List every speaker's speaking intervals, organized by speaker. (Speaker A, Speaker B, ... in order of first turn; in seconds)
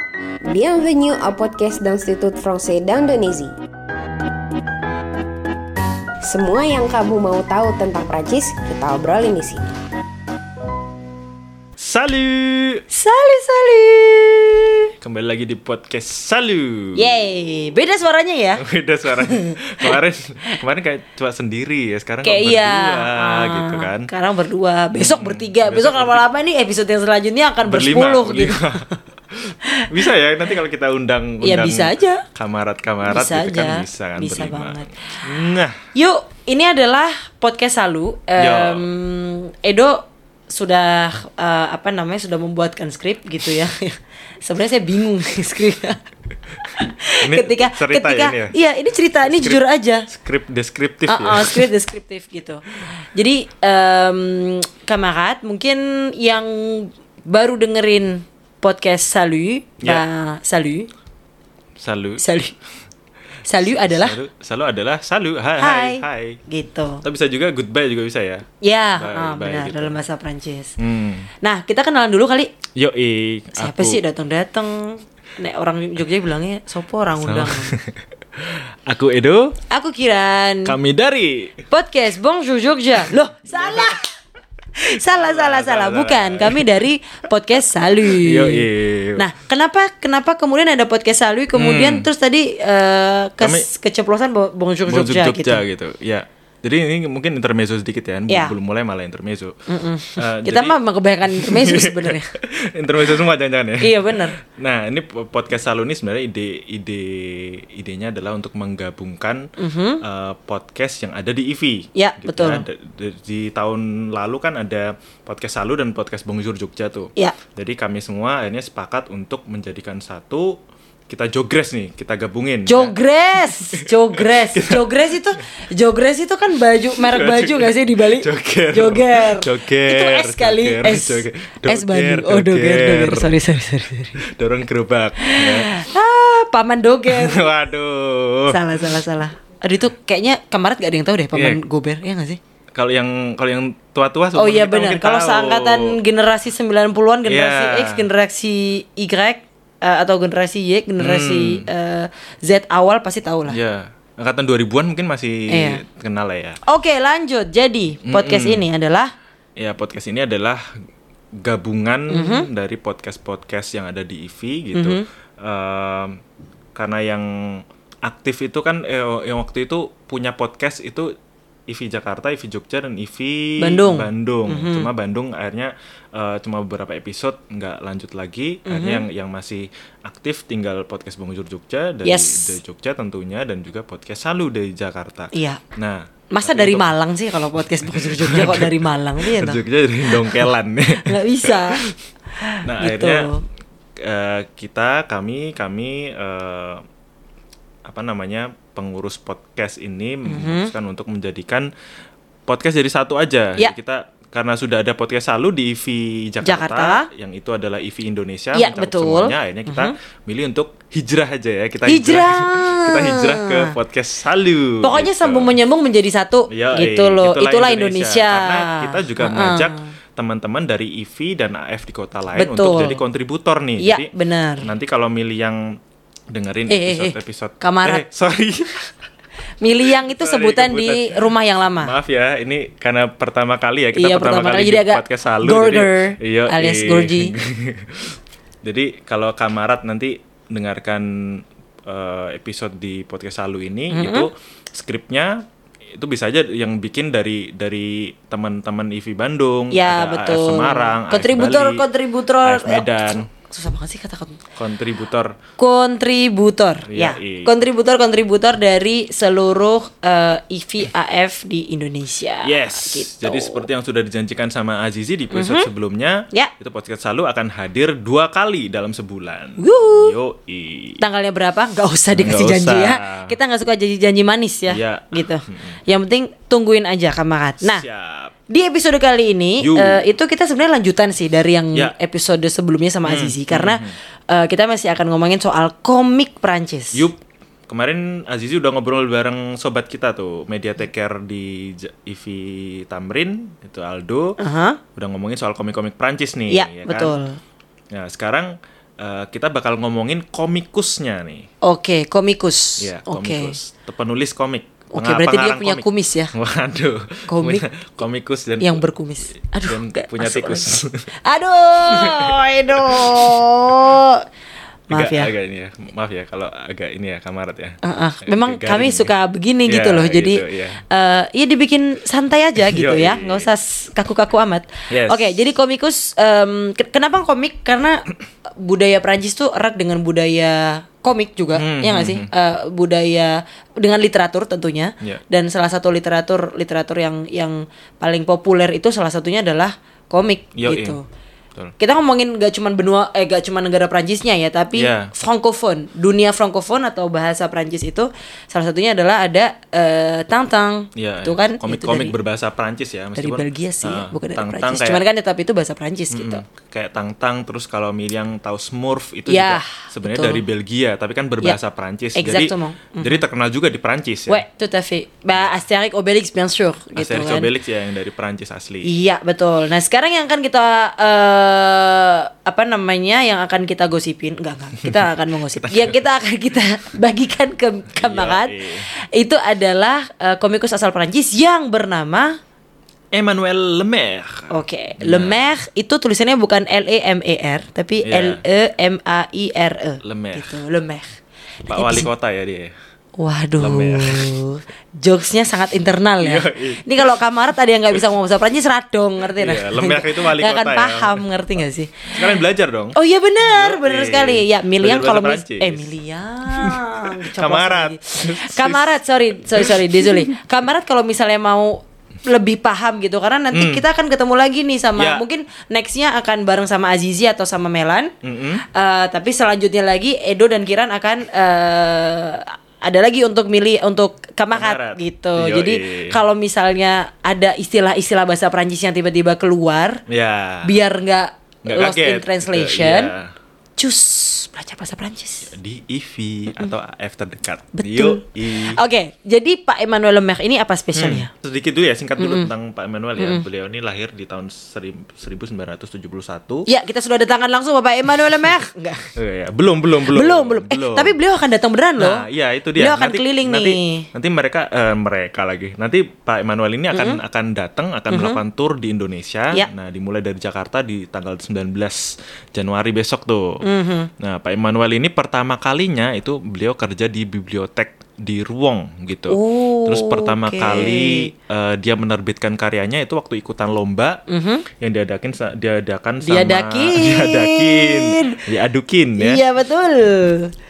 Speaker A: 0.4-3.5, 6.2-9.7
Speaker B: 11.8-12.8, 15.0-17.1, 18.6-24.1, 24.9-26.2, 27.6-35.8, 38.4-38.9, 47.2-48.5, 49.2-51.7, 61.8-62.3, 63.6-66.4, 67.0-70.0, 70.8-71.3, 72.8-74.0, 77.2-79.6, 80.7-81.6, 83.5-84.0, 85.0-86.7, 88.0-89.3, 91.5-92.1, 93.4-93.7, 94.9-99.5, 100.2-109.5, 110.0-120.6, 121.1-125.4, 126.8-133.4, 134.2-135.8, 137.1-138.9, 141.3-141.6, 142.7-146.0, 147.2-148.1, 151.0-151.7, 153.5-156.6, 158.0-158.7, 159.6-160.7, 161.4-166.2, 166.8-171.1, 171.7-186.9, 187.6-191.9, 192.6-193.3, 194.0-196.8, 197.8-201.7, 202.5-215.6, 216.5-224.1, 224.6-225.8, 226.3-228.9, 229.8-231.2, 231.8-245.4, 245.9-251.8, 252.4-253.3, 254.6-255.3, 256.9-257.5, 262.4-271.0, 272.1-273.3, 274.7-275.8, 277.6-278.3, 279.6-280.0, 283.1-283.9, 286.9-294.4, 294.9-297.2, 297.9-301.4, 302.8-311.1, 311.8-313.7, 314.9-319.1, 319.6-320.8, 322.6-323.5, 324.9-325.4, 331.6-332.3, 340.6-341.0, 344.8-345.1, 351.0-355.0, 356.1-364.4, 365.3-365.6, 366.9-368.9, 374.8-376.0, 377.9-378.9, 383.1-385.5, 388.0-388.4, 390.0-390.6, 391.7-392.7, 393.6-394.3, 396.2-397.2, 399.3-401.2, 402.1-405.9, 406.4-410.3, 413.5-413.8, 414.9-415.2, 418.2-418.6, 424.5-426.2, 430.1-430.8, 431.6-433.3, 435.4-438.8, 440.9-446.7, 449.1-451.2, 452.0-463.6, 464.2-474.2, 474.8-479.4
Speaker C: 12.9-14.9, 16.9-20.0, 22.2-28.9, 29.7-30.1, 31.4-32.2, 33.0-35.2, 35.9-46.0, 46.6-50.1, 51.1-60.9, 62.2-62.5, 63.5-64.2, 65.6-67.0, 68.6-70.7, 71.4-72.5, 73.6-77.8, 79.7-80.8, 81.7-84.1, 84.8-95.6, 98.3-98.5, 99.7-102.3, 103.8-104.4, 109.6-110.0, 112.0-112.6, 122.7-134.2, 135.2-137.5, 138.5-142.4, 144.3-153.6, 155.5-155.8, 156.6-159.1, 162.1-162.5, 164.7-165.1, 173.6-174.9, 178.6-179.1, 182.0-182.6, 185.3-185.6, 186.3-191.8, 192.3-193.4, 200.2-200.7, 206.4-207.1, 208.5-209.9, 211.8-213.8, 214.8-219.9, 222.3-223.0, 223.8-224.7, 226.7-228.1, 229.6-231.9, 233.9-237.3, 243.9-244.3, 249.7-254.4, 255.6-263.7, 265.3-265.7, 269.6-270.1, 271.0-277.8, 278.5-287.1, 294.4-294.8, 296.5-297.4, 301.6-303.6, 304.9-306.3, 307.3-307.6, 308.6-314.2, 314.9-315.3, 317.8-328.1, 328.6-341.1, 341.8-352.1, 353.1-356.4, 359.3-360.4, 362.1-363.2, 364.3-367.5, 368.8-382.3, 384.5-391.1, 391.7-392.1, 393.2-402.4, 402.9-418.1, 418.7-430.0, 430.6-433.1, 433.8-435.5, 437.7-441.3, 442.2-442.5, 443.1-443.4, 446.7-449.1, 450.1-454.1, 456.9-457.2, 458.1-458.4, 463.6-464.1, 469.3-471.3, 474.3-474.6, 476.2-478.4, 479.2-480.5